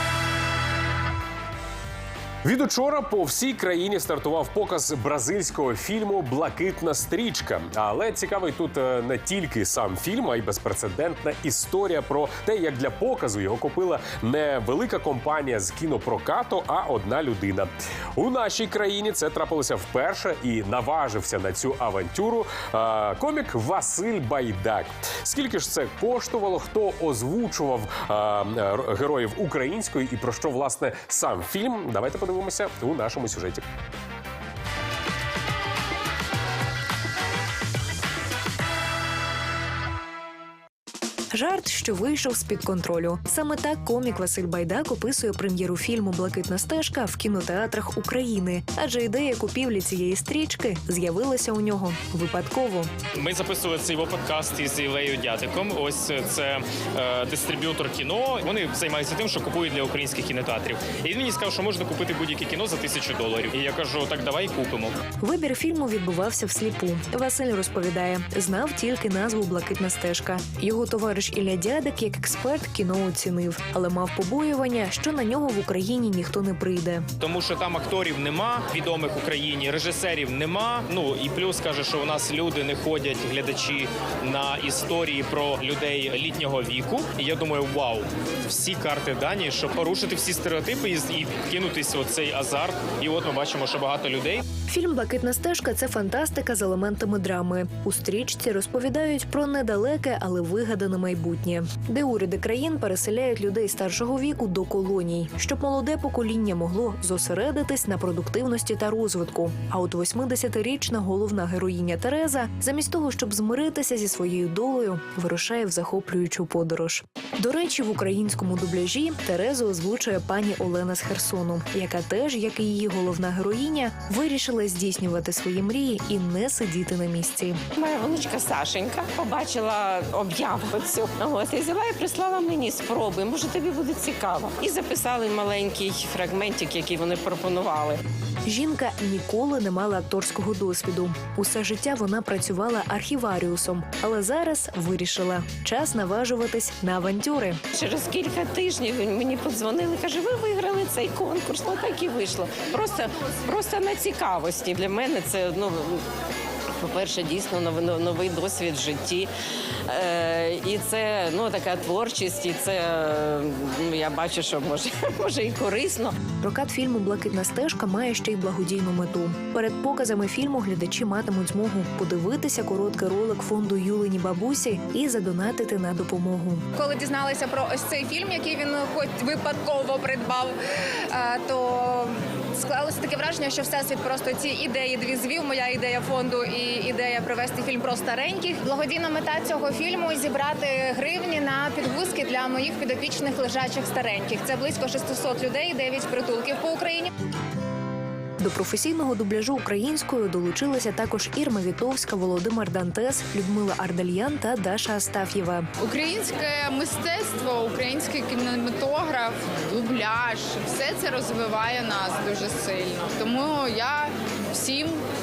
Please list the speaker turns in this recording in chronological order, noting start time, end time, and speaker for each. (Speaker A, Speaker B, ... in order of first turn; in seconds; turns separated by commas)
Speaker A: 2.4-33.6, Speaker B: 41.3-52.9, Speaker C: 53.1-65.0, Speaker B: 65.2-77.1, Speaker C: 77.2-94.4, Speaker B: 94.7-127.6, Speaker D: 127.7-138.0, Speaker B: 138.5-147.6, Speaker D: 147.7-156.0, Speaker D: 156.8-159.3, Speaker D: 159.9-166.2, Speaker B: 166.4-176.7, Speaker E: 176.8-180.6, Speaker E: 181.1-197.1, Speaker B: 198.4-205.7, Speaker F: 205.8-215.0